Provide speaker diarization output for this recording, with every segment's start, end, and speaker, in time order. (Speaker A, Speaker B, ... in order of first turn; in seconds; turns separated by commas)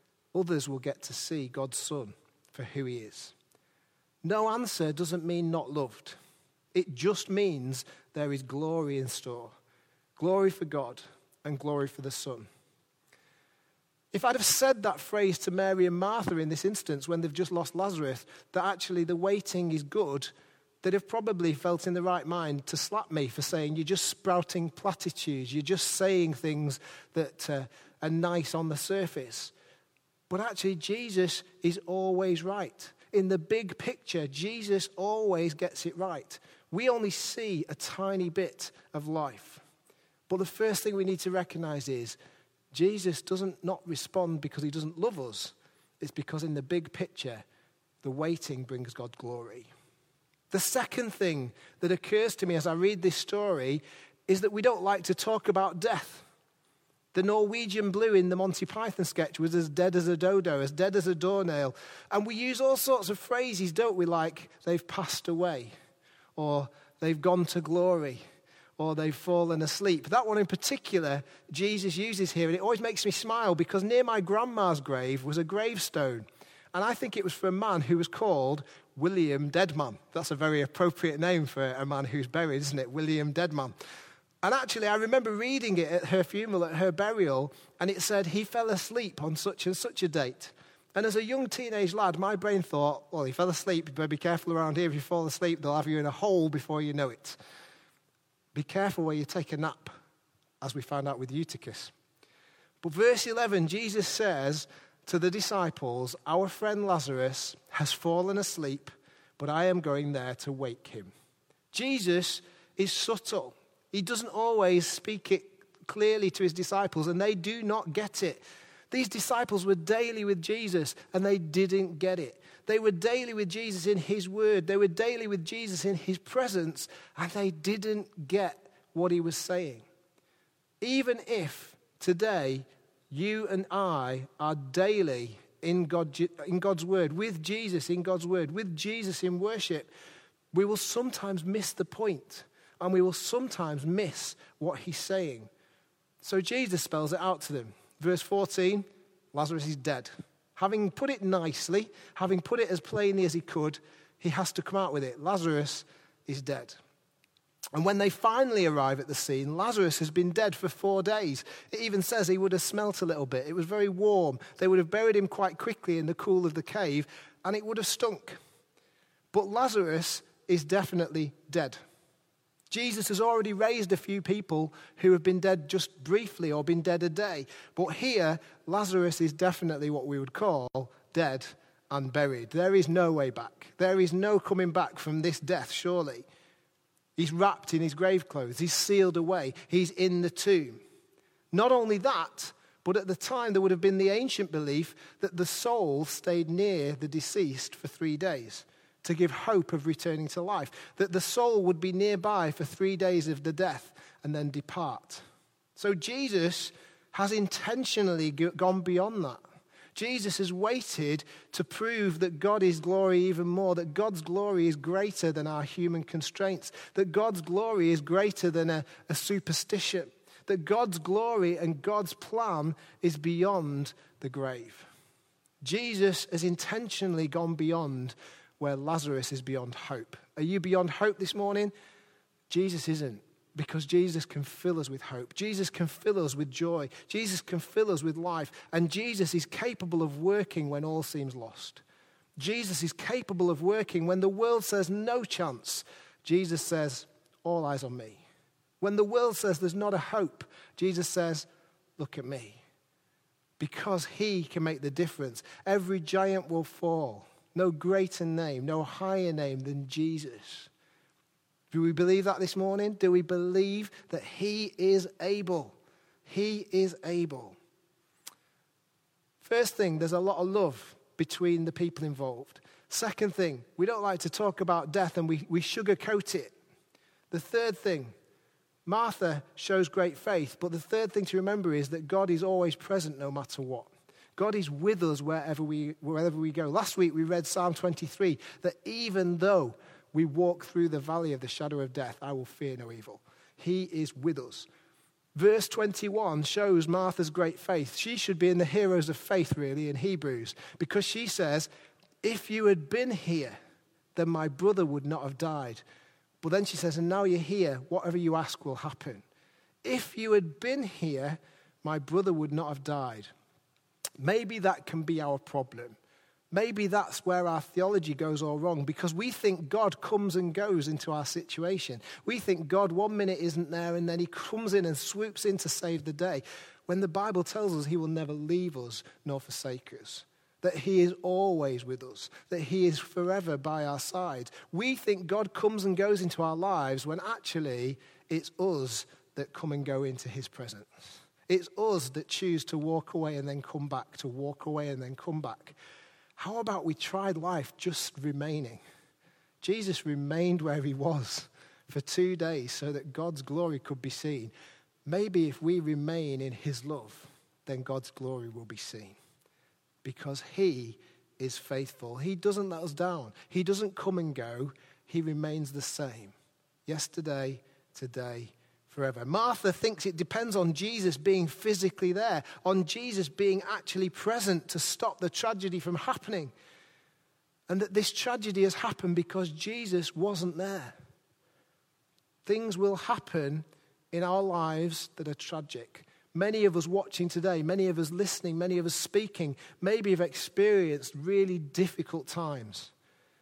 Speaker A: 0.3-3.3, Speaker A: 4.2-6.2, Speaker A: 6.7-9.5, Speaker A: 10.2-12.5, Speaker A: 14.1-20.3, Speaker A: 20.8-29.5, Speaker A: 30.3-39.6, Speaker A: 40.3-42.2, Speaker A: 42.7-47.4, Speaker A: 48.0-49.7, Speaker A: 50.5-56.2, Speaker A: 57.1-65.7, Speaker A: 66.3-68.2, Speaker A: 68.8-83.7, Speaker A: 84.4-97.4, Speaker A: 98.5-99.9, Speaker A: 100.6-101.9, Speaker A: 102.8-111.1, Speaker A: 111.7-129.8, Speaker A: 130.8-139.9, Speaker A: 140.5-145.5, Speaker A: 146.2-156.8, Speaker A: 157.7-168.4, Speaker A: 169.3-171.8, Speaker A: 172.7-186.2, Speaker A: 187.2-190.8, Speaker A: 191.5-205.2, Speaker A: 205.8-209.4, Speaker A: 209.9-224.9, Speaker A: 225.6-231.7, Speaker A: 232.5-241.8, Speaker A: 242.4-248.2, Speaker A: 248.8-252.6, Speaker A: 253.6-260.7, Speaker A: 261.7-267.6, Speaker A: 269.4-276.5, Speaker A: 277.3-278.1, Speaker A: 278.9-294.7, Speaker A: 295.3-301.7, Speaker A: 302.2-303.6, Speaker A: 304.1-305.8, Speaker A: 306.4-309.2, Speaker A: 309.8-313.3, Speaker A: 314.2-316.0, Speaker A: 316.5-345.8, Speaker A: 346.4-348.8, Speaker A: 349.6-354.5, Speaker A: 355.1-359.2, Speaker A: 360.0-366.3, Speaker A: 366.9-376.5, Speaker A: 377.7-380.9, Speaker A: 382.4-392.9